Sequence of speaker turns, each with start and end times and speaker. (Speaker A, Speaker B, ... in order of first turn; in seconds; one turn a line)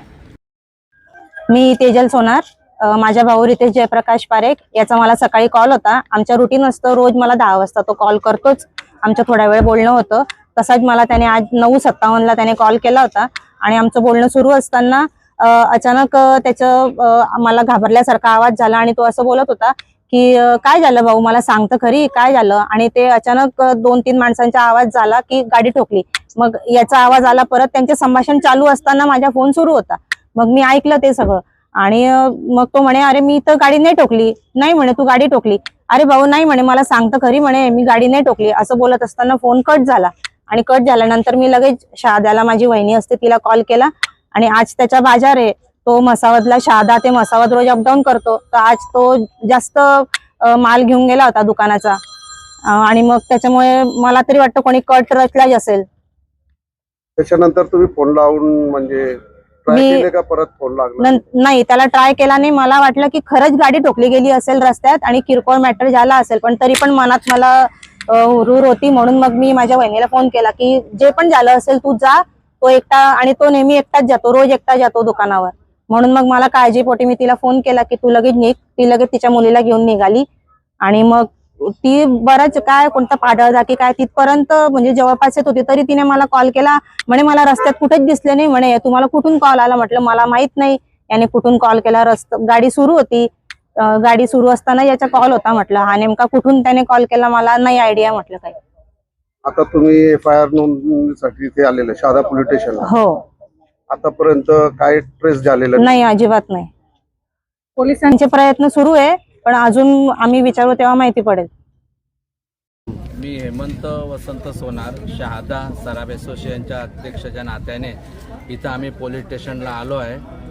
Speaker A: 1.5-52.0
Speaker A: 52.7-55.9
Speaker B: 57.2-61.2
Speaker A: 59.7-60.1
Speaker A: 61.0-80.2
Speaker A: 80.8-98.6
Speaker B: 99.5-102.9
Speaker A: 102.9-103.2
Speaker B: 103.9-105.9
Speaker A: 105.8-106.7
Speaker A: 107.8-111.5
Speaker C: 113.1-118.0
Speaker C: 118.5-120.2